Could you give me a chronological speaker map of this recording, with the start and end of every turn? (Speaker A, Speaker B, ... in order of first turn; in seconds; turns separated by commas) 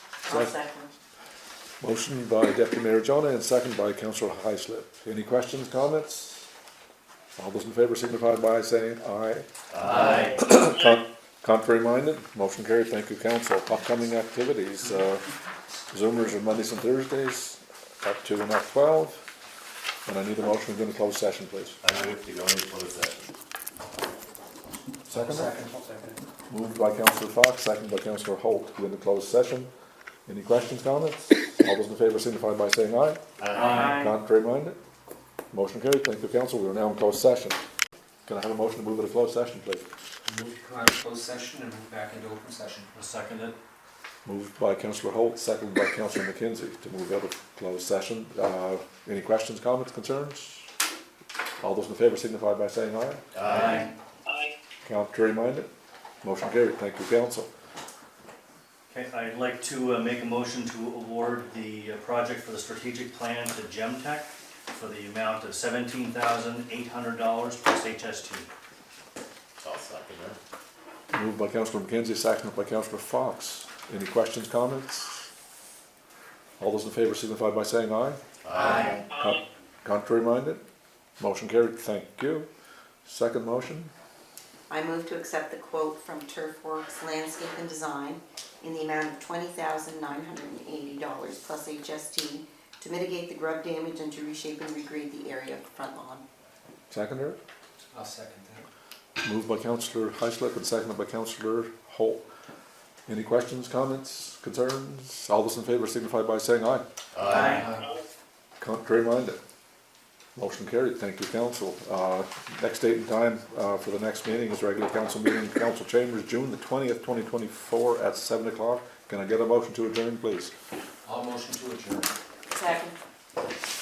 Speaker A: 0.2-0.6, Speaker A: 1.8-6.5, Speaker A: 7.3-15.3, Speaker B: 9.7-10.2, Speaker C: 9.8-10.4, Speaker A: 15.9-19.2, Speaker A: 20.1-21.8, Speaker B: 21.8-23.2, Speaker A: 25.1-25.6, Speaker D: 25.1-26.2, Speaker A: 26.5-29.7, Speaker A: 30.3-34.8, Speaker B: 33.4-33.9, Speaker A: 35.5-37.6, Speaker A: 38.2-39.9, Speaker D: 40.2-42.9, Speaker C: 42.9-43.6, Speaker A: 44.2-50.7, Speaker A: 51.6-53.2, Speaker B: 53.3-53.9, Speaker C: 53.4-53.9, Speaker A: 54.8-55.7, Speaker A: 56.2-57.5, Speaker C: 58.9-68.5, Speaker B: 69.6-70.4, Speaker A: 71.1-75.3, Speaker A: 76.6-78.2, Speaker B: 78.4-79.0, Speaker D: 78.6-79.0, Speaker A: 79.0-80.6, Speaker A: 81.2-82.5, Speaker A: 83.0-83.9, Speaker E: 84.7-96.2, Speaker A: 96.9-97.4, Speaker D: 97.9-98.7, Speaker A: 99.2-102.2, Speaker A: 103.1-106.8, Speaker B: 107.1-107.8, Speaker D: 107.3-107.9, Speaker A: 108.6-109.4, Speaker A: 110.3-120.5, Speaker D: 121.0-122.1